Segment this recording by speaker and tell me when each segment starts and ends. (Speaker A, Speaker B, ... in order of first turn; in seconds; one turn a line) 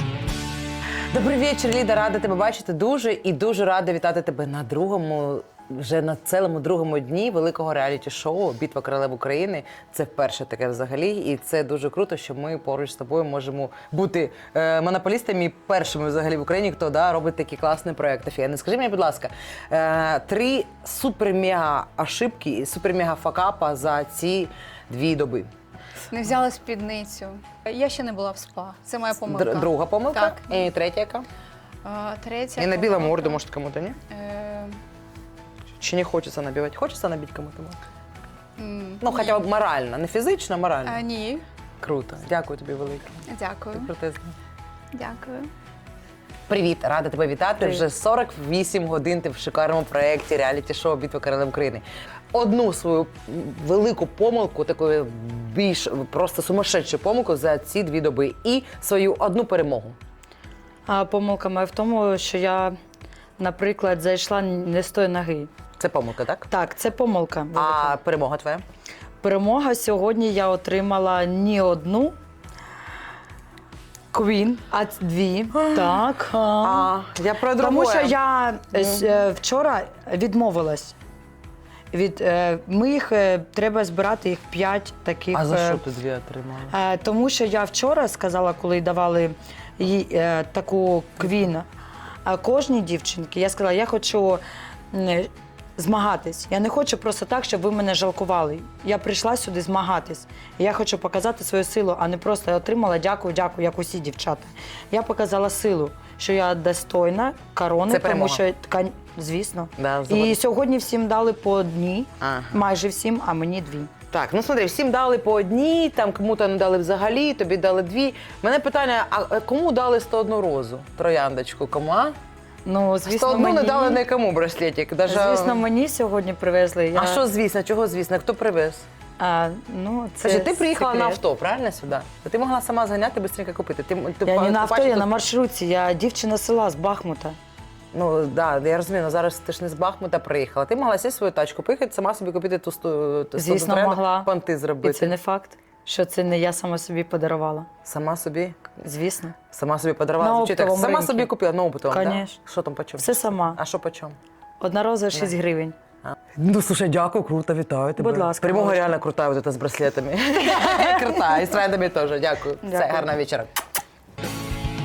Speaker A: 1.1-25.5
Speaker B: 26.1-30.6
Speaker A: 29.2-31.2
Speaker B: 31.8-33.4
Speaker A: 32.5-34.0
Speaker B: 34.1-34.8
Speaker A: 35.8-37.8
Speaker B: 38.6-39.4
Speaker A: 39.0-41.0
Speaker B: 40.9-41.4
Speaker A: 41.8-44.3
Speaker B: 43.3-43.9
Speaker B: 44.9-45.5
Speaker A: 46.5-60.0
Speaker C: 60.9-62.7
Speaker C: 63.4-65.5
Speaker A: 65.8-66.5
Speaker C: 66.5-68.0
Speaker A: 67.5-68.6
Speaker C: 69.2-72.2
Speaker C: 74.1-76.9
Speaker A: 76.6-78.2
Speaker C: 77.5-81.0
Speaker A: 78.7-79.0
Speaker C: 81.9-85.8
Speaker A: 85.3-86.7
Speaker C: 86.7-91.7
Speaker C: 92.2-113.9
Speaker A: 107.9-108.4
Speaker A: 109.8-110.4
Speaker A: 112.2-112.6
Speaker A: 114.1-122.1
Speaker C: 122.7-124.0
Speaker A: 123.0-125.6
Speaker C: 125.1-127.2
Speaker A: 126.9-128.8
Speaker C: 129.2-131.2
Speaker A: 130.2-135.1
Speaker C: 134.2-137.4
Speaker A: 137.9-145.2
Speaker C: 143.4-144.3
Speaker C: 144.8-147.7
Speaker A: 147.8-148.7
Speaker C: 148.8-149.3
Speaker A: 149.5-154.2
Speaker C: 150.2-152.4
Speaker C: 153.0-153.6
Speaker C: 154.6-155.7
Speaker A: 156.1-163.5
Speaker C: 158.0-158.9
Speaker C: 160.6-161.1
Speaker C: 162.6-163.1